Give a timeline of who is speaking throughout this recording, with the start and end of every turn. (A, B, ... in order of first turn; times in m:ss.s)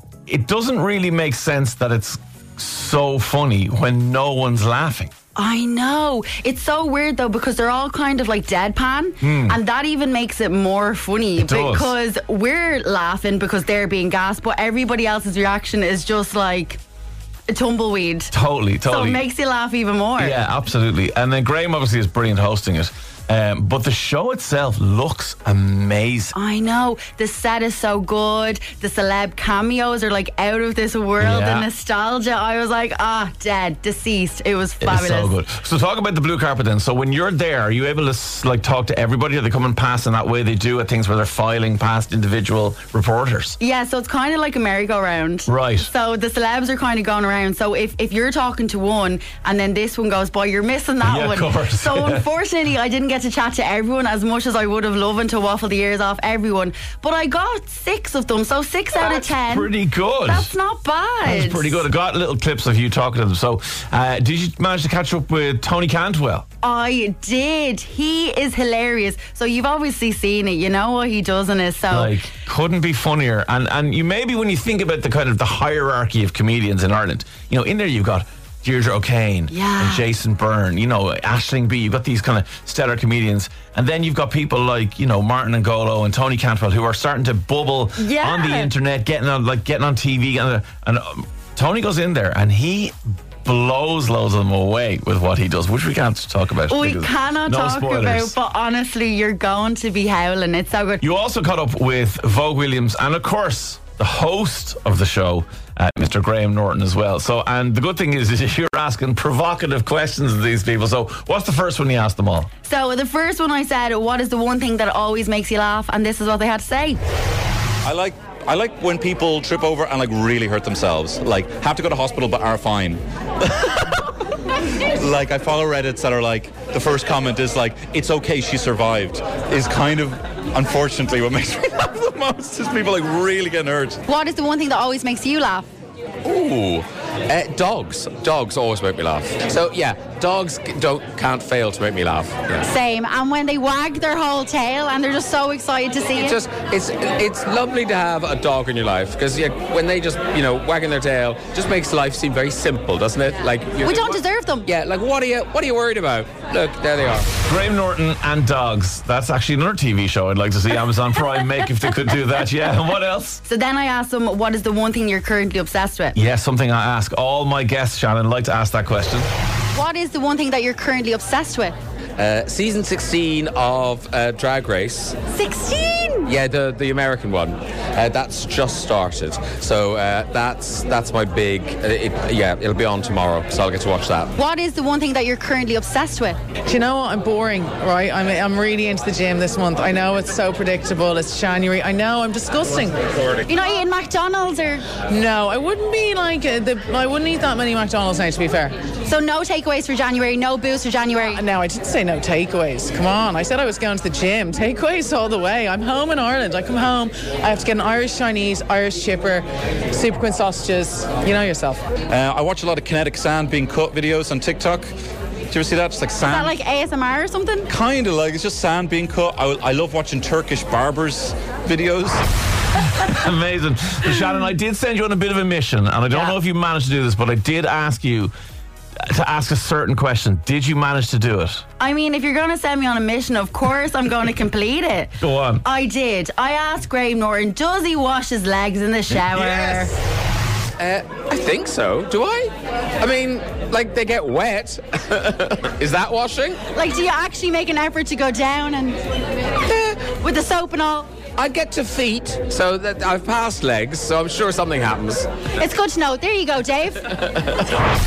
0:00.3-0:05.1 A
0:05.3-0:16.8 B
0:09.2-0:09.6 A
0:11.4-0:11.9 A
0:17.5-0:18.3 B
0:18.3-0:19.2 A
0:18.8-0:20.4 B
0:20.2-0:26.3 A
0:26.3-0:35.4 B
0:31.2-0:31.7 A
0:34.8-0:43.6 A
0:43.6-0:59.7 B
0:45.5-0:45.9 A
0:51.0-0:52.2 A
0:59.0-1:00.5 A
1:00.2-1:01.8 B
1:01.2-1:06.4 A
1:06.6-1:12.2 B
1:11.9-1:38.3 A
1:19.5-1:20.0 B
1:28.0-1:28.7 B
1:36.7-1:41.0 B
1:41.0-1:52.5 A
1:52.6-1:57.0 B
1:57.8-2:03.8 C
2:04.8-2:14.0 C
2:14.0-2:15.7 B
2:16.2-2:22.6 D
2:22.6-2:26.4 B
2:26.1-2:37.3 D
2:33.8-2:34.7 B
2:37.4-2:43.4 A
2:43.4-2:46.2 B
2:46.1-2:49.3 A
2:49.7-2:51.8 B
2:52.2-2:55.2 D
2:55.3-2:56.3 B
2:56.2-3:04.3 D
3:04.3-3:06.4 B
3:06.6-3:13.4 E
3:13.5-3:14.9 B
3:15.0-3:18.8 E
3:19.0-3:21.4 B
3:21.3-3:31.9 E
3:32.1-3:34.9 C
3:35.5-3:36.5 C
3:36.2-3:37.7 B
3:37.7-3:42.2 C
3:42.8-3:48.3 A
3:46.1-3:46.3 B
3:49.1-3:51.6 A
3:51.8-3:55.1 B
3:55.2-3:55.6 A
3:55.6-3:59.9 B
3:59.3-3:59.9 D
4:00.8-4:06.6 D
4:06.7-4:09.0 B
4:10.0-4:11.1 B
4:11.4-4:15.3 D
4:15.6-4:17.3 B